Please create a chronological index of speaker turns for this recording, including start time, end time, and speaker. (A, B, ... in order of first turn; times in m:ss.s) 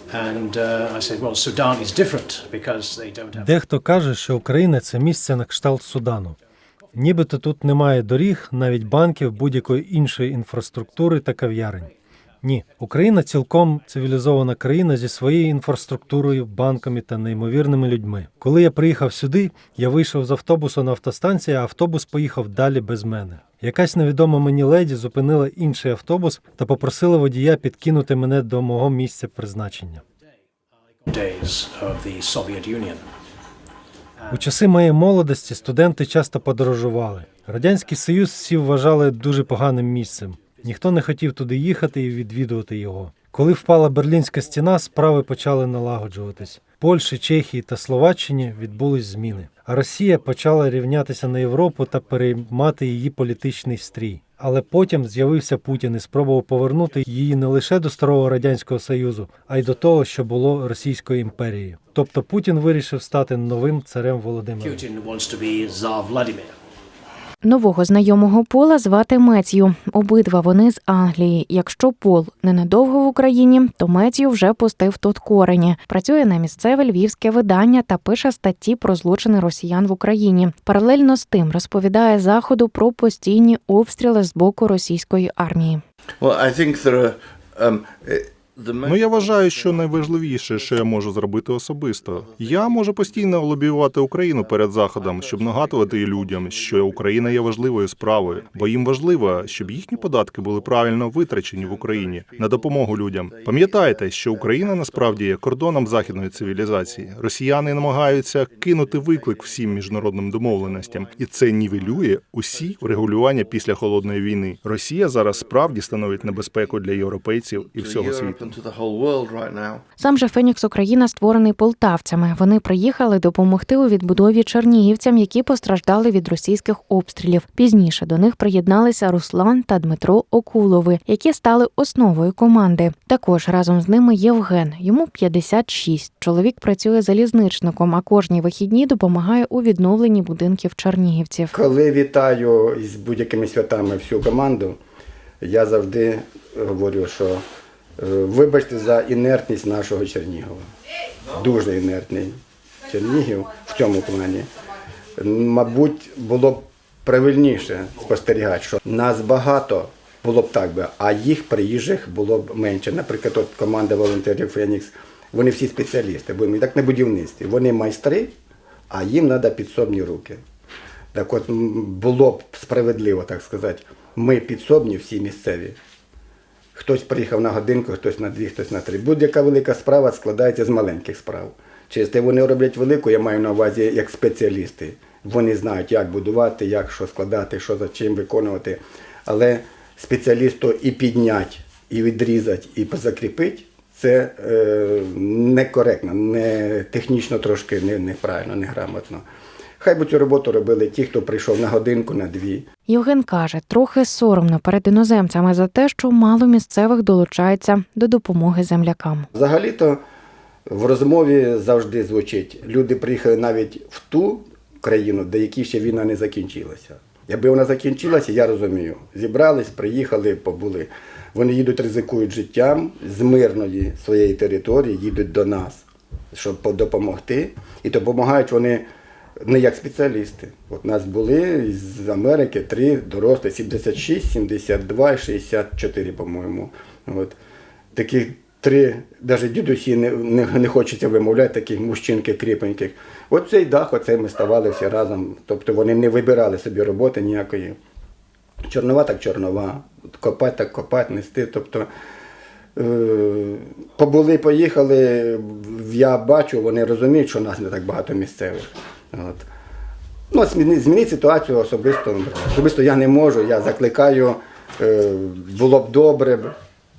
0:00.1-0:03.5 A
0:03.3-0:06.4 B
0:07.0-0:11.9 B
0:12.4-0:30.0 B
0:31.1-0:33.1 A
0:34.2-0:34.5 A
0:34.3-1:04.8 B
1:04.6-1:06.6 A
1:07.4-1:25.8 C
1:26.2-1:31.1 D
1:28.9-1:58.5 E
1:32.0-1:54.3 D
1:55.3-1:59.8 D
2:00.0-2:21.6 C
2:21.5-2:24.8 F
2:25.4-2:27.4 F
2:28.0-2:30.6 F
2:31.3-2:34.5 F
2:35.1-2:48.3 F
2:48.9-2:50.4 F
2:51.1-2:55.8 F
2:56.7-3:19.2 F
3:19.8-3:22.7 F
3:22.9-3:29.3 C
3:29.3-3:30.0 F
3:30.7-3:48.9 F
3:49.4-3:57.4 F
3:57.9-4:07.8 F
4:08.7-4:11.9 F
4:12.8-4:19.5 F
4:20.3-4:26.5 F